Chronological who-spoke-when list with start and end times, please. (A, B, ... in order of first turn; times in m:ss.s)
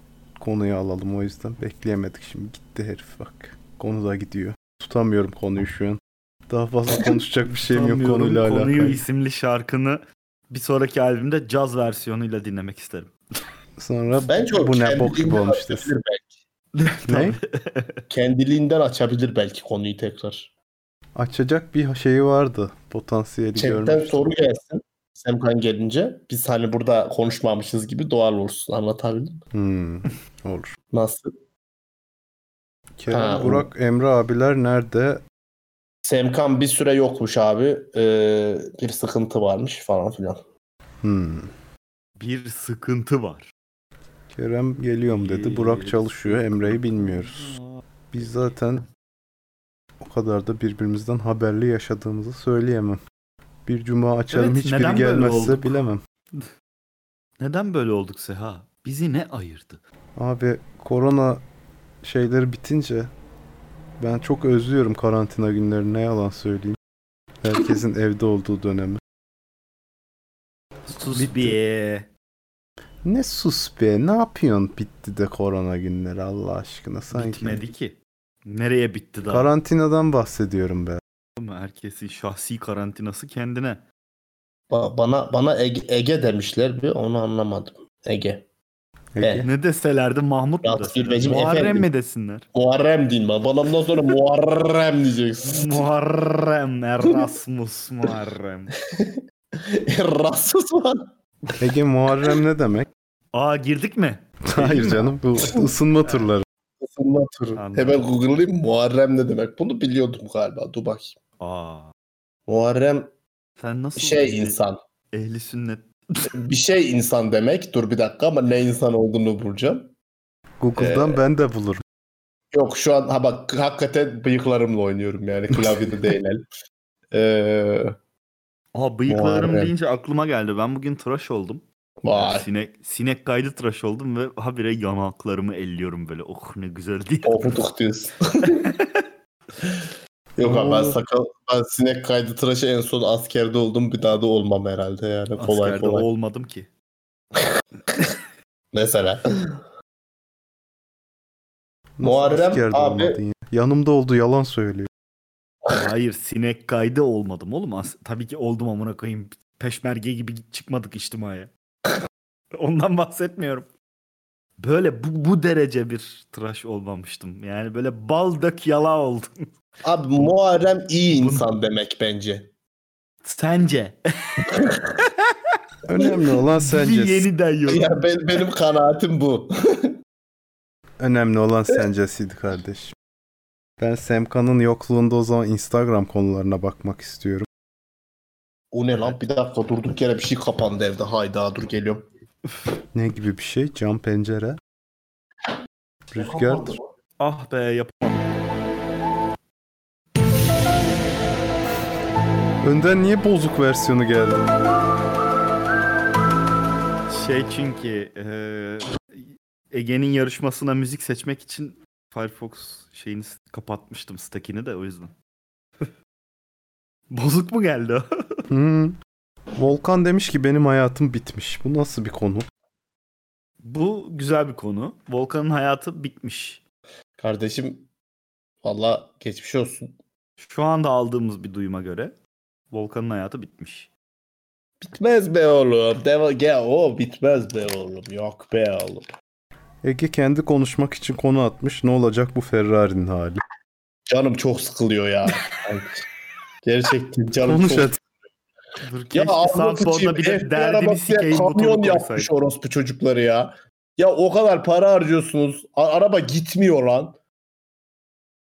0:00.4-0:09.0 A
0:07.5-0:13.1 B
0:13.8-0:15.9 A
0:14.3-0:16.3 C
0:16.8-0:18.0 B
0:17.1-0:17.4 A
0:18.1-0:20.5 C
0:21.2-0:24.2 A
0:23.6-0:29.4 C
0:29.5-0:30.7 A
0:30.9-0:31.3 C
0:33.0-0:35.2 A
0:33.1-0:33.7 C
0:36.0-0:40.4 C
0:41.0-0:41.5 A
0:42.2-0:43.5 B
0:44.3-0:47.6 A
0:45.1-0:47.8 B
0:48.1-0:48.8 A
0:50.0-0:53.0 A
0:53.7-0:56.0 A
0:54.3-0:55.8 B
0:57.4-0:59.8 B
1:00.2-1:01.4 A
1:02.0-1:03.1 A
1:04.0-1:06.8 A
1:07.4-1:09.0 A
1:10.9-1:12.1 B
1:11.2-1:11.6 A
1:13.0-1:17.6 A
1:17.1-1:19.5 B
1:19.3-1:21.0 A
1:21.4-1:23.8 B
1:24.7-1:28.5 C
1:29.2-1:29.5 A
1:29.2-1:29.5 C
1:29.4-1:32.5 B
1:30.6-1:31.9 C
1:32.5-1:35.8 C
1:35.5-1:38.7 B
1:38.9-1:41.1 C
1:41.6-1:42.9 A
1:43.3-1:45.2 B
1:44.4-1:46.4 A
1:46.8-1:51.2 C
1:47.6-1:48.0 B
1:51.4-1:51.9 B
1:52.5-1:53.1 C
1:53.6-1:54.6 B
1:54.0-1:54.8 C
1:55.1-1:55.9 B
1:56.3-1:59.9 C
2:00.6-2:01.8 A
2:00.8-2:01.2 C
2:02.5-2:06.4 C
2:07.1-2:08.0 C
2:08.7-2:17.6 B
2:09.1-2:09.7 C
2:12.0-2:12.5 C
2:17.2-2:18.6 C
2:18.5-2:19.0 B
2:20.4-2:26.1 C
2:20.4-2:21.0 A
2:25.4-2:26.7 B
2:28.7-2:29.6 C
2:32.0-2:34.9 A
2:32.0-2:33.2 C
2:35.7-2:41.5 B
2:42.6-2:43.7 B
2:44.6-2:49.3 B
2:49.8-2:52.5 C
2:51.1-2:51.5 B
2:53.2-2:54.5 B
2:55.9-2:57.3 A
2:56.6-2:57.9 B
2:57.7-2:59.9 C
3:01.0-3:02.9 A
3:03.8-3:07.5 A
3:08.7-3:12.0 C
3:12.9-3:14.6 A
3:16.1-3:16.7 A
3:16.2-3:16.8 C
3:17.2-3:18.2 B
3:22.6-3:24.4 A
3:27.1-3:35.1 B
3:37.1-3:38.0 B
3:38.5-3:39.0 A
3:39.6-3:42.5 A
3:43.6-3:46.6 B
3:47.2-3:47.9 C
3:48.6-3:49.9 C
3:50.4-3:52.2 B
3:52.7-3:53.9 B
3:54.8-3:59.1 C
3:59.8-4:03.4 A
4:04.1-4:06.0 C
4:06.6-4:07.9 C
4:07.4-4:08.0 A
4:08.8-4:12.3 B
4:09.1-4:17.2 C